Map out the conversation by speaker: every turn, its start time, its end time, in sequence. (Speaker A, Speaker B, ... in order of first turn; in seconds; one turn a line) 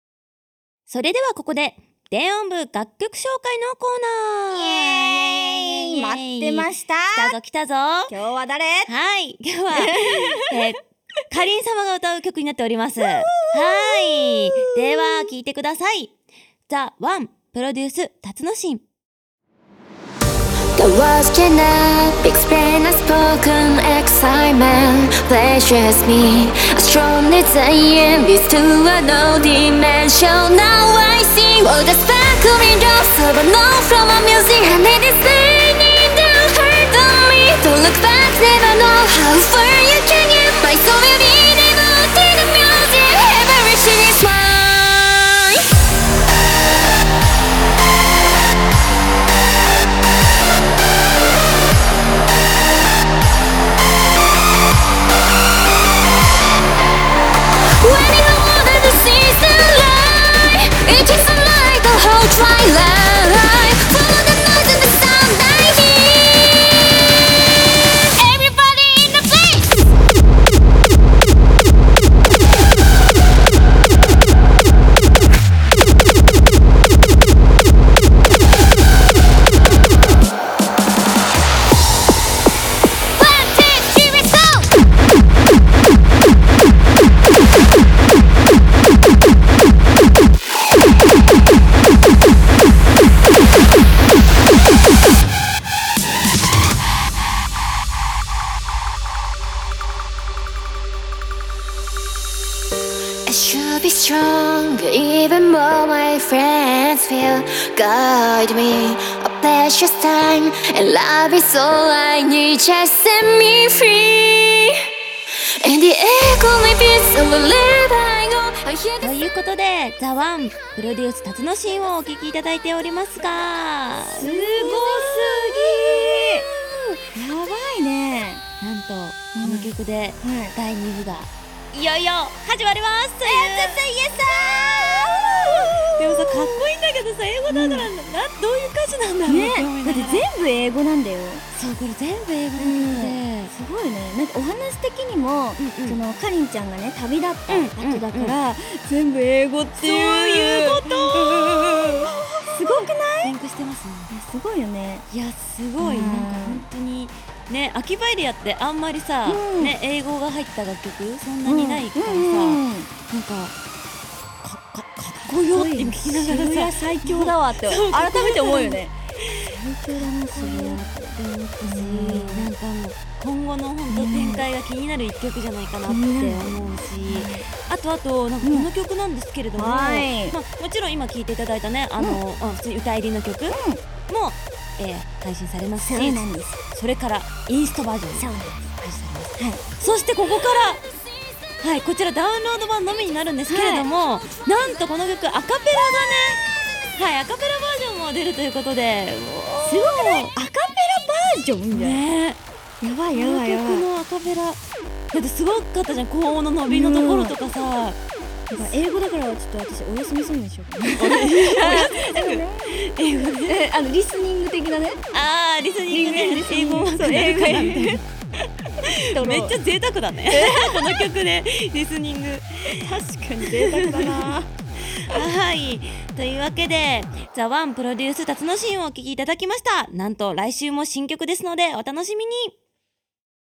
Speaker A: 0.9-8.1
Speaker B: 4.5-7.3
Speaker B: 8.1-8.9
Speaker A: 8.9-16.1
Speaker B: 9.7-10.6
Speaker B: 13.0-15.3
Speaker A: 16.7-18.8
Speaker C: 20.8-45.6
Speaker C: 57.8-66.7
Speaker C: 68.2-69.8
Speaker C: 83.2-84.6
Speaker C: 103.2-114.8
Speaker C: 115.6-119.2
Speaker A: 119.0-126.3
Speaker B: 124.2-126.5
Speaker B: 127.1-128.4
Speaker A: 128.6-133.8
Speaker B: 129.3-129.7
Speaker B: 130.2-130.5
Speaker B: 133.2-136.6
Speaker A: 135.0-140.2
Speaker B: 137.5-137.9
Speaker B: 139.3-141.4
Speaker A: 141.5-143.5
Speaker B: 142.6-153.3
Speaker A: 145.6-146.0
Speaker A: 147.5-148.3
Speaker A: 149.8-154.1
Speaker B: 154.1-155.0
Speaker A: 155.1-163.5
Speaker B: 155.8-156.7
Speaker B: 159.3-159.8
Speaker B: 161.4-162.9
Speaker A: 164.4-190.8
Speaker B: 165.5-168.9
Speaker B: 169.4-172.5
Speaker B: 173.9-174.4
Speaker B: 175.8-177.4
Speaker B: 178.4-178.7
Speaker B: 179.5-180.4
Speaker B: 183.5-183.8
Speaker B: 185.8-186.6
Speaker B: 188.2-188.6
Speaker B: 189.4-189.7
Speaker A: 191.6-200.3
Speaker B: 193.5-193.9
Speaker B: 199.7-202.0
Speaker A: 201.7-202.4
Speaker B: 202.8-203.8
Speaker A: 203.1-208.0
Speaker B: 206.7-207.3
Speaker B: 208.5-215.1
Speaker A: 210.9-213.6
Speaker A: 215.1-218.0
Speaker B: 215.9-218.0
Speaker B: 218.8-219.6
Speaker A: 218.8-222.9
Speaker B: 220.3-221.1
Speaker B: 222.7-224.5
Speaker A: 223.4-224.3
Speaker A: 224.9-232.5